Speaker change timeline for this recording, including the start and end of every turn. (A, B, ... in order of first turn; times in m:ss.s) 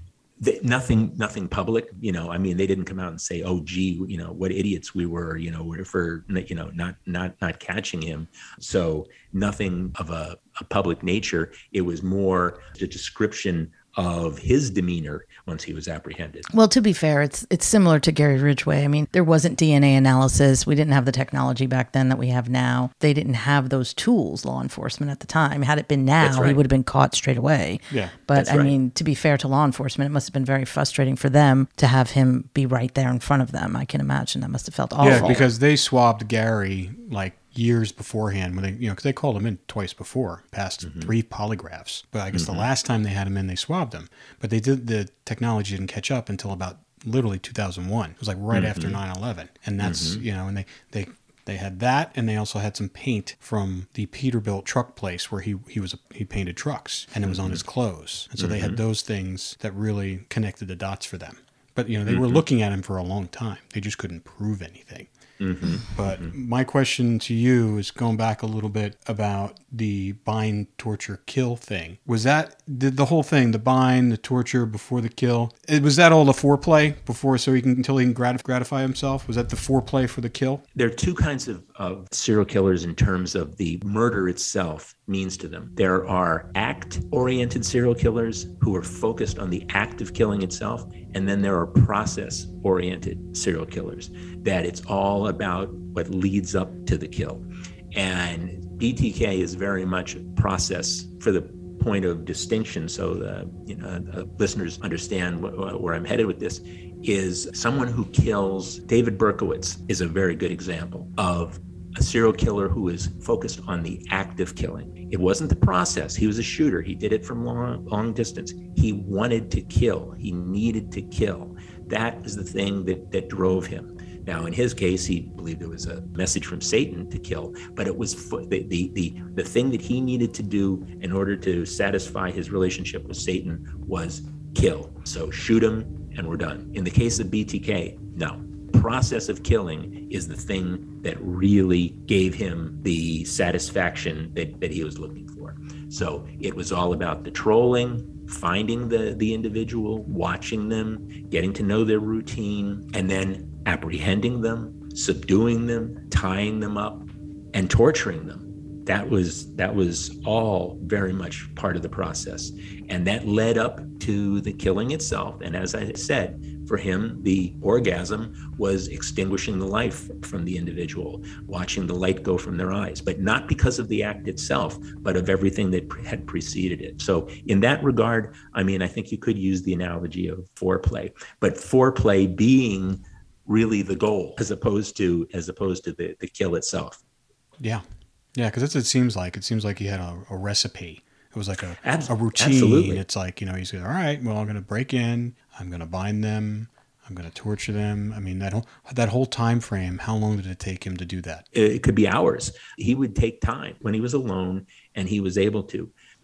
0:00.4-0:16.5 A
0:16.5-0:35.4 B
0:26.2-0:26.6 A
0:28.3-0:28.7 A
0:35.0-1:05.1 C
0:35.0-0:35.5 A
0:40.8-0:41.1 A
0:42.3-0:42.7 A
0:48.5-0:49.0 A
0:49.8-0:50.2 A
0:57.2-0:57.6 A
0:58.4-0:58.8 A
1:02.1-1:02.4 A
1:05.4-1:06.3 A
1:05.9-1:20.6 C
1:20.8-3:07.0 A
3:08.4-3:21.5 C
3:11.8-3:13.0 A
3:21.5-3:25.9 A